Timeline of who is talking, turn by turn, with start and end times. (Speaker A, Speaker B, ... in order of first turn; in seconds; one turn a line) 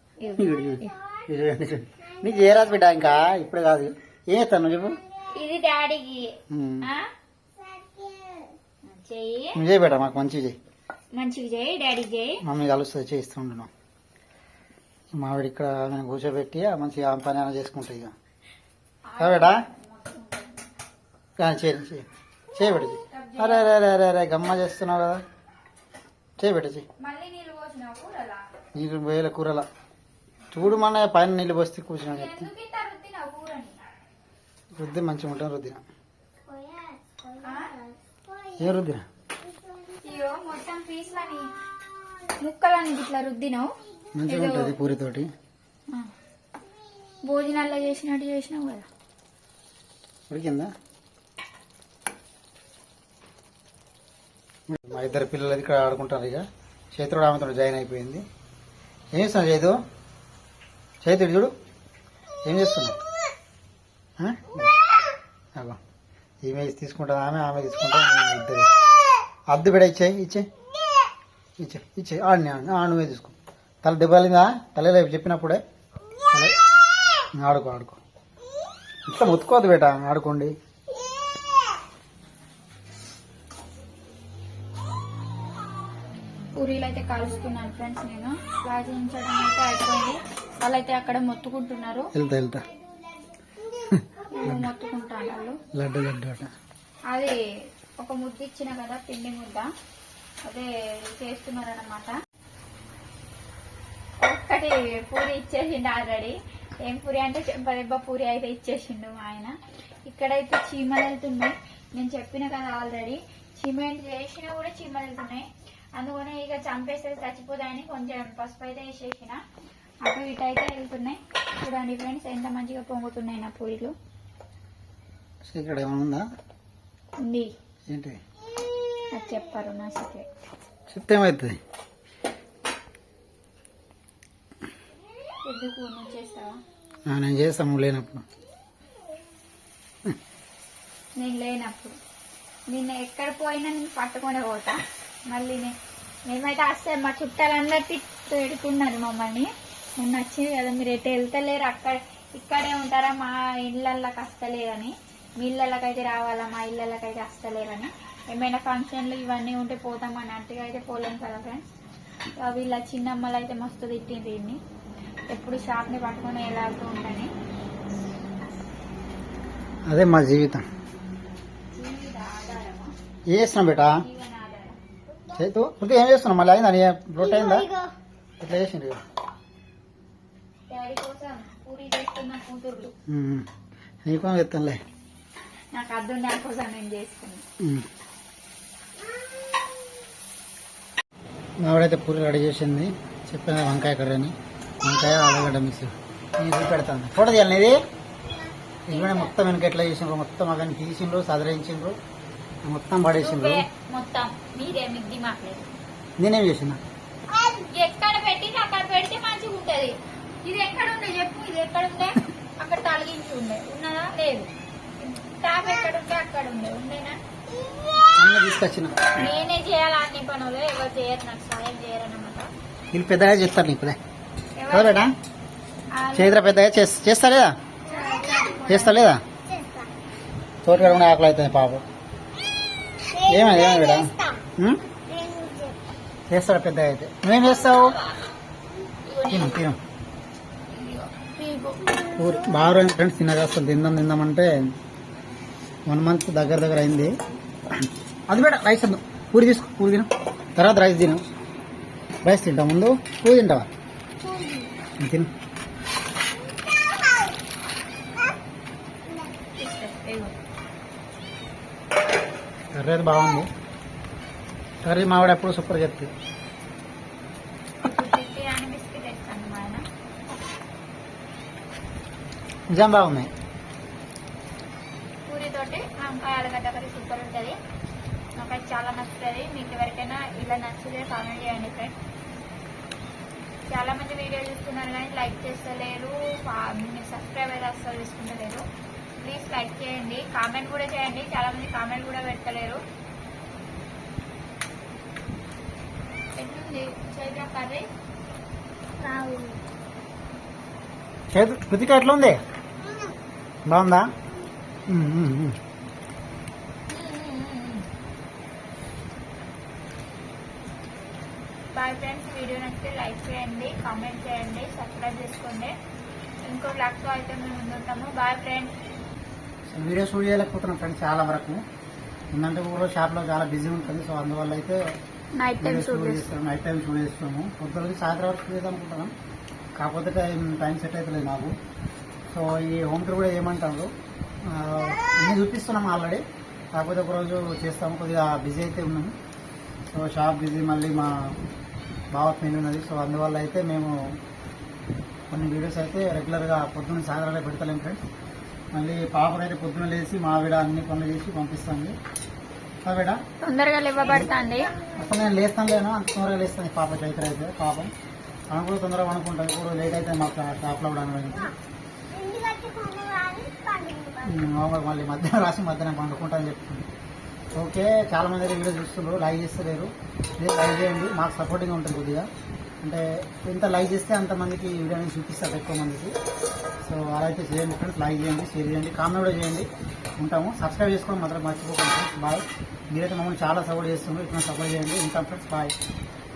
Speaker A: 0.2-0.9
Speaker B: 0.3-5.0
Speaker C: 0.7-1.2
Speaker C: 2.1-2.4
Speaker A: 5.3-7.1
Speaker B: 6.5-6.9
Speaker C: 7.6-8.6
Speaker A: 8.9-9.6
Speaker B: 9.6-10.6
Speaker A: 11.1-12.4
Speaker B: 12.4-13.7
Speaker B: 15.1-18.1
Speaker A: 19.1-20.7
Speaker B: 19.2-19.6
Speaker B: 21.4-25.2
Speaker A: 23.0-23.8
Speaker B: 26.4-26.9
Speaker A: 27.0-28.5
Speaker B: 28.7-29.7
Speaker B: 30.5-32.5
Speaker A: 32.1-33.9
Speaker B: 34.8-35.8
Speaker C: 36.5-38.8
Speaker A: 37.4-37.7
Speaker B: 38.6-39.0
Speaker C: 39.5-40.0
Speaker A: 40.0-41.5
Speaker A: 42.4-43.7
Speaker B: 44.2-45.3
Speaker A: 44.3-44.8
Speaker A: 47.3-48.9
Speaker B: 50.3-50.7
Speaker B: 54.7-58.2
Speaker B: 59.1-59.8
Speaker B: 61.0-61.5
Speaker B: 62.5-63.0
Speaker B: 64.2-64.7
Speaker B: 66.5-68.7
Speaker B: 69.5-70.5
Speaker B: 71.6-75.6
Speaker B: 76.3-76.6
Speaker B: 77.4-78.0
Speaker B: 79.1-80.5
Speaker A: 86.6-92.1
Speaker B: 92.2-92.7
Speaker C: 92.9-94.0
Speaker B: 93.9-94.7
Speaker A: 94.3-95.6
Speaker B: 95.7-96.5
Speaker A: 97.1-97.4
Speaker A: 98.0-99.7
Speaker A: 100.5-102.1
Speaker A: 104.2-119.4
Speaker A: 120.1-124.0
Speaker B: 125.5-126.2
Speaker A: 127.2-127.5
Speaker B: 127.9-128.2
Speaker A: 129.1-130.3
Speaker B: 130.9-131.6
Speaker A: 135.4-136.6
Speaker B: 137.1-138.2
Speaker A: 141.2-142.0
Speaker A: 142.7-145.7
Speaker A: 146.3-161.7
Speaker A: 162.4-164.6
Speaker A: 165.3-167.3
Speaker B: 169.9-170.7
Speaker A: 171.7-172.9
Speaker B: 173.3-174.0
Speaker A: 173.9-174.8
Speaker B: 175.3-177.7
Speaker C: 177.2-177.9
Speaker B: 178.4-179.0
Speaker A: 180.7-182.9
Speaker B: 183.1-183.5
Speaker B: 184.1-184.8
Speaker A: 185.7-187.4
Speaker B: 187.6-187.9
Speaker B: 191.6-197.8
Speaker B: 198.9-202.0
Speaker B: 202.6-203.7
Speaker A: 203.2-205.7
Speaker B: 206.2-206.8
Speaker C: 207.3-207.7
Speaker A: 207.7-217.2
Speaker C: 217.5-218.6
Speaker B: 218.2-219.2
Speaker A: 219.2-222.5
Speaker B: 222.9-224.0
Speaker A: 224.6-225.1
Speaker B: 224.7-225.1
Speaker A: 225.9-226.5
Speaker B: 226.2-227.6
Speaker A: 227.9-229.1
Speaker C: 227.9-228.5
Speaker B: 228.7-229.2
Speaker C: 229.3-229.9
Speaker B: 230.6-231.8
Speaker C: 233.1-234.4
Speaker B: 233.3-234.8
Speaker C: 235.1-235.8
Speaker B: 236.3-238.0
Speaker A: 237.6-238.2
Speaker A: 239.1-239.6
Speaker B: 239.3-239.8
Speaker A: 240.7-242.0
Speaker C: 241.9-242.7
Speaker B: 242.2-244.7
Speaker B: 245.9-247.2
Speaker B: 247.7-251.3
Speaker B: 252.2-253.7
Speaker C: 254.2-254.7
Speaker B: 255.0-255.3
Speaker C: 256.4-257.4
Speaker A: 259.6-260.4
Speaker B: 262.7-263.5
Speaker B: 264.8-266.1
Speaker A: 267.8-269.9
Speaker B: 272.7-273.3
Speaker A: 275.3-277.6
Speaker A: 278.4-281.9
Speaker A: 283.7-288.6
Speaker A: 289.2-292.8
Speaker A: 296.4-297.9
Speaker C: 299.0-299.6
Speaker B: 301.3-302.4
Speaker C: 302.8-303.2
Speaker B: 303.7-304.1
Speaker B: 304.9-305.6
Speaker A: 306.9-307.9
Speaker A: 311.8-315.7
Speaker A: 316.4-318.7
Speaker B: 319.7-321.6
Speaker B: 322.3-324.9
Speaker A: 325.4-326.2
Speaker B: 325.6-329.1
Speaker B: 329.8-331.6
Speaker B: 332.3-333.9
Speaker B: 334.4-339.2
Speaker B: 339.9-341.4
Speaker B: 342.1-343.9
Speaker B: 345.3-348.0
Speaker B: 348.7-352.0
Speaker B: 352.9-353.2
Speaker A: 353.4-354.8
Speaker C: 354.1-355.2
Speaker B: 354.9-357.9
Speaker B: 358.5-361.5
Speaker C: 362.1-364.4
Speaker B: 364.2-366.9
Speaker B: 367.6-372.3
Speaker B: 372.8-376.1
Speaker B: 376.8-385.8